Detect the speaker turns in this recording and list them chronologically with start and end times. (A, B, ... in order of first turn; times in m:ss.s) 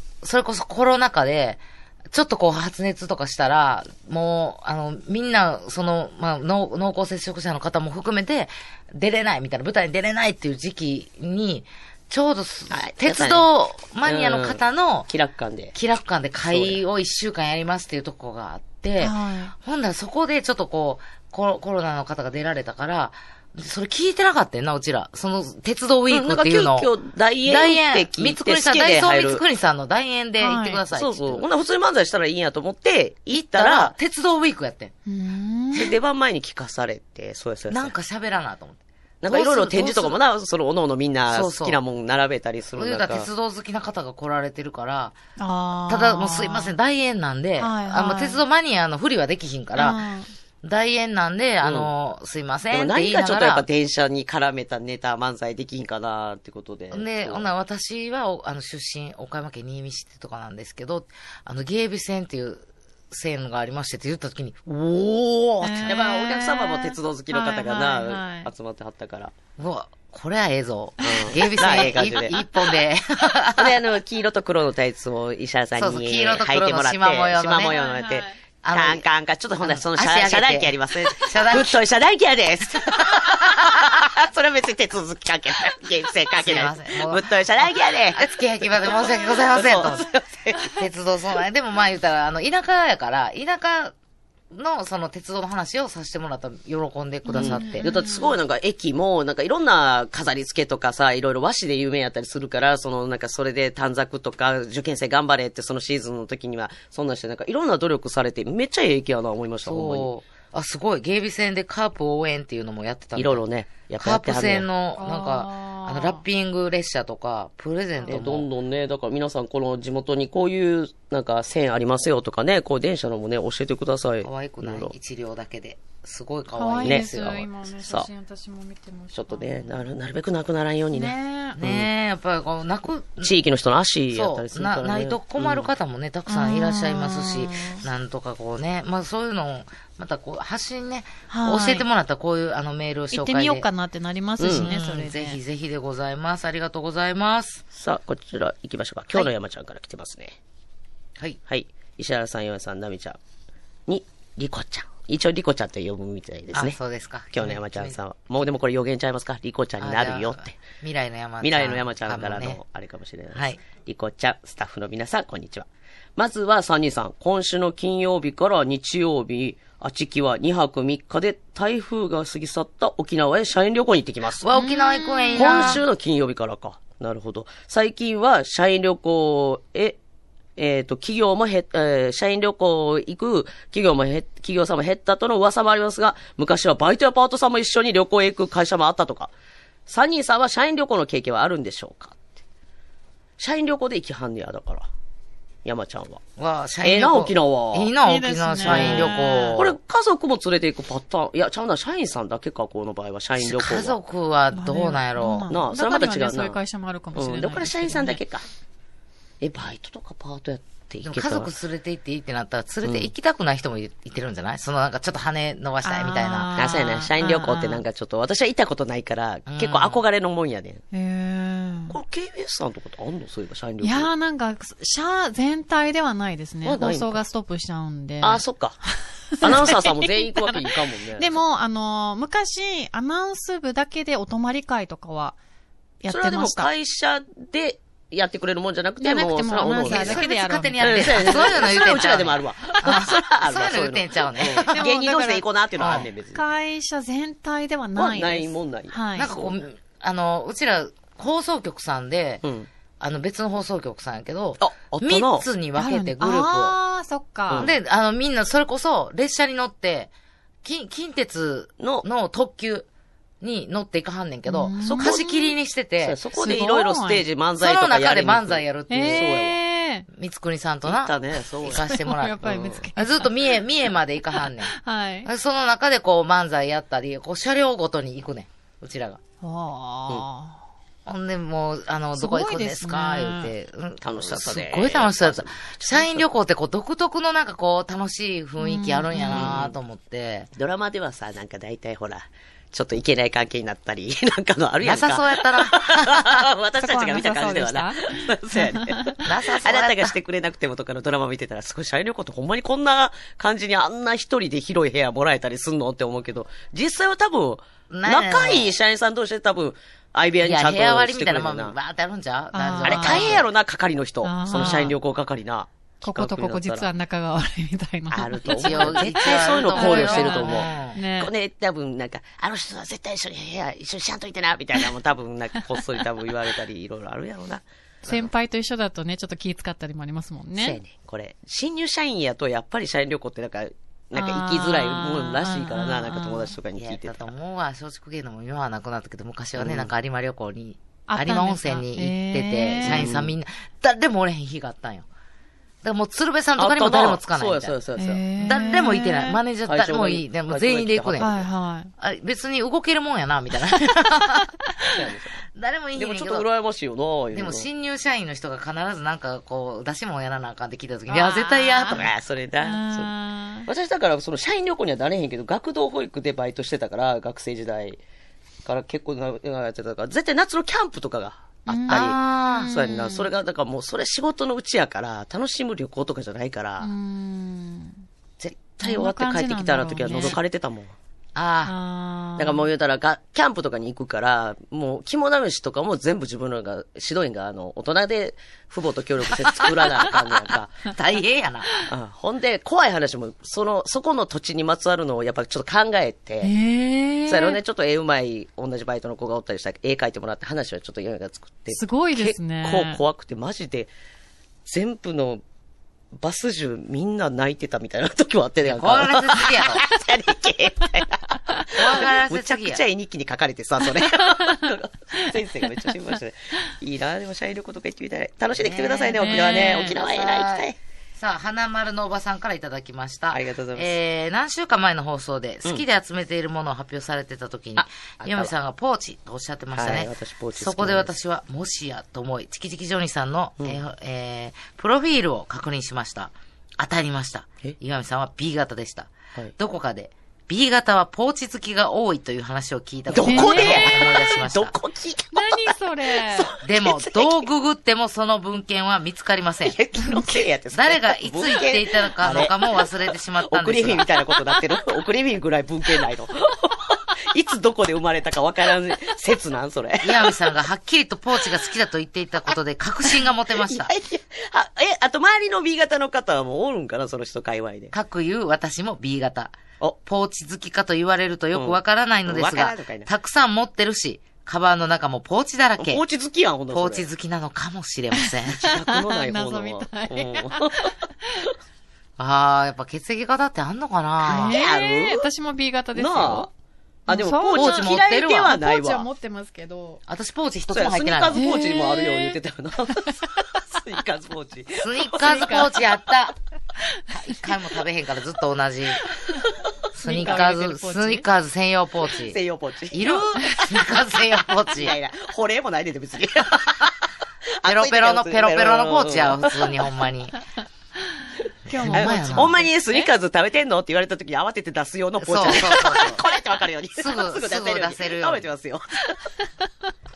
0:00.2-0:15.1 A
0:12.7-0:13.5 B
0:14.0-0:15.7 B
0:15.7-0:26.9 A
0:16.5-0:16.8 B
0:19.0-0:19.5 C
0:26.1-0:29.4 B
0:27.4-0:31.4 A
0:30.4-0:30.8 C
0:30.9-0:33.9 B
0:33.3-0:34.9 A
0:35.1-0:35.9 C
0:35.7-0:37.9 B
0:37.7-0:40.2 A
0:39.2-0:43.3 B
0:41.3-0:41.8 A
0:42.8-0:45.2 A
0:45.4-0:46.7 C
0:45.9-0:50.0 A
0:47.6-0:48.4 C
0:49.8-0:50.3 C
0:50.6-0:53.6 A
0:51.6-0:51.9 B
0:52.7-0:57.5 B
0:56.9-1:04.6 A
1:04.7-1:09.3 B
1:05.6-1:08.5 C
1:09.6-1:13.8 A
1:11.0-1:12.4 B
1:11.0-1:11.3 C
1:13.5-1:30.7 B
1:15.8-1:17.7 A
1:17.6-1:18.4 C
1:18.6-1:19.0 A
1:19.6-1:21.8 A
1:23.0-1:23.9 A
1:26.4-1:30.1 A
1:30.6-1:33.9 A
1:34.5-1:37.8 A
1:37.2-1:38.4 C
1:37.3-1:50.1 B
1:49.6-1:53.4 A
1:53.2-1:54.7 B
1:54.0-1:58.5 A
1:54.9-1:56.2 C
1:58.0-2:04.9 B
2:04.2-2:07.5 A
2:06.5-2:09.8 C
2:07.8-2:08.1 B
2:09.1-2:11.9 B
2:10.9-2:11.6 C
2:11.6-2:13.3 A
2:13.2-2:15.7 B
2:14.1-2:23.6 A
2:16.3-2:17.8 C
2:21.3-2:21.8 C
2:23.1-2:25.4 C
2:24.4-2:24.7 B
2:24.4-2:27.6 A
2:27.7-2:30.4 B
2:31.5-2:33.2 B
2:33.9-2:36.8 B
2:36.5-2:38.0 A
2:37.3-2:40.6 B
2:39.8-2:42.6 A
2:41.4-2:54.4 B
2:43.3-2:43.6 A
2:54.4-2:55.8 A
2:54.5-2:55.8 C
2:55.3-3:00.0 B
3:00.6-3:09.3 B
3:09.9-3:12.2 B
3:13.4-3:14.9 B
3:15.6-3:16.2 B
3:16.4-3:19.8 A
3:16.8-3:17.9 B
3:18.0-3:19.6 C
3:18.6-3:23.9 B
3:23.4-3:25.5 A
3:24.5-3:28.2 C
3:25.5-3:26.6 B
3:27.1-3:28.4 B
3:29.4-3:31.5 B
3:31.0-3:36.5 A
3:32.8-3:33.1 B
3:35.8-3:37.8 C
3:36.6-3:40.8 B
3:39.5-3:40.0 A
3:40.9-3:41.9 C
3:41.9-3:44.1 B
3:43.8-3:55.4 C
3:46.6-3:47.2 B
3:48.2-3:48.8 B
3:49.4-3:51.4 B
3:56.0-3:56.7 C
3:56.1-4:00.2 B
3:59.0-4:01.8 C
3:59.8-4:04.8 A
4:00.8-4:06.4 B
4:04.7-4:09.3 C
4:05.8-4:06.1 A
4:08.0-4:09.6 B
4:09.2-4:12.4 A
4:12.4-4:12.7 B
4:13.0-4:16.7 A
4:14.6-4:15.4 B
4:15.8-4:17.6 C
4:17.5-4:17.8 B
4:17.6-4:20.1 A
4:20.6-4:22.9 A
4:21.8-4:22.0 B
4:23.4-4:26.2 A
4:24.4-4:25.3 C
4:24.8-4:25.4 B
4:26.0-4:29.6 B
4:26.4-4:27.2 C
4:27.6-4:29.3 A
4:28.9-4:30.0 C
4:30.1-4:32.4 A
4:30.8-4:32.8 B
4:31.7-4:33.3 C
4:32.9-4:34.7 A
4:34.4-4:35.3 C
4:35.2-4:39.2 A
4:39.4-4:40.6 C
4:41.0-4:50.5 A
4:42.2-4:43.5 C
4:44.0-4:46.2 B
4:48.6-4:49.5 C
4:49.3-4:49.7 B
4:50.5-5:11.7 B
4:54.8-4:56.5 A
4:56.8-4:59.2 C
4:59.2-5:00.1 A
5:07.9-5:08.7 A
5:10.4-5:13.4 A
5:12.5-5:13.4 C
5:12.8-5:16.9 B
5:14.2-5:15.0 C
5:16.0-5:21.3 C
5:18.1-5:28.3 B
5:18.4-5:21.0 A
5:28.0-5:30.8 C
5:30.6-5:37.3 B
5:34.1-5:36.5 C
5:36.8-5:45.1 A
5:39.6-5:39.9 B
5:41.1-5:43.0 C
5:42.8-5:43.3 B
5:45.8-5:47.7 A
5:46.6-5:48.2 B
5:48.0-5:49.4 C
5:48.4-5:51.3 A
5:49.6-5:51.5 B
5:51.2-5:51.9 C
5:52.0-5:54.5 A
5:54.8-5:55.4 B
5:55.5-5:56.4 A
5:56.0-5:57.7 B
5:57.3-6:02.1 A
6:01.1-6:02.0 C
6:01.9-6:03.1 B
6:02.6-6:03.7 C
6:03.6-6:08.0 B
6:08.6-6:16.9 B
6:11.7-6:13.3 C
6:11.9-6:12.7 A
6:16.8-6:18.0 C
6:18.4-6:20.9 B
6:18.8-6:20.4 C
6:21.3-6:21.7 A
6:21.6-6:22.7 C
6:22.4-6:30.9 B
6:30.9-6:31.7 A
6:31.9-6:36.5 B
6:36.4-6:37.6 C
6:37.3-6:43.9 B
6:41.7-6:43.0 C
6:44.6-6:45.4 B
6:46.1-7:00.8 B
6:48.6-6:49.8 A
6:51.7-6:52.8 A
6:54.0-6:55.3 C
6:58.6-7:24.8 A
6:58.9-6:59.9 C
7:03.3-7:03.9 B
7:07.8-7:08.5 B
7:09.7-7:11.1 B
7:23.1-7:27.4 B
7:23.2-7:24.0 C
7:25.3-7:26.5 C
7:26.6-7:29.8 A
7:29.6-7:32.9 B
7:30.0-7:30.4 C
7:30.7-7:34.1 A
7:33.4-7:40.4 B
7:40.0-7:43.9 A
7:43.5-7:47.9 B
7:47.9-7:56.0 A
7:51.5-7:53.1 B
7:55.8-7:57.1 B
7:56.7-7:58.7 A
7:58.6-8:01.5 B
7:58.6-8:01.4 C
8:02.2-8:04.6 A
8:04.2-8:06.5 C
8:04.2-8:05.2 B
8:05.9-8:06.5 B
8:07.1-8:10.0 C
8:07.1-8:09.1 B
8:07.5-8:08.6 A
8:10.1-8:11.4 A
8:10.7-8:15.7 B
8:11.3-8:12.4 C
8:12.9-8:13.2 C
8:14.7-8:16.4 A
8:15.3-8:15.6 C
8:17.1-8:19.0 A
8:19.1-8:19.4 C
8:19.9-8:22.4 A
8:20.0-8:21.2 C
8:20.1-8:20.5 B
8:22.2-8:23.9 B
8:22.9-8:24.9 A
8:24.6-8:26.9 B
8:27.6-8:29.9 B
8:27.6-8:30.4 A
8:31.7-8:33.1 C
8:31.7-8:32.6 A
8:31.9-8:39.2 B
8:35.2-8:36.2 A
8:37.0-8:38.5 A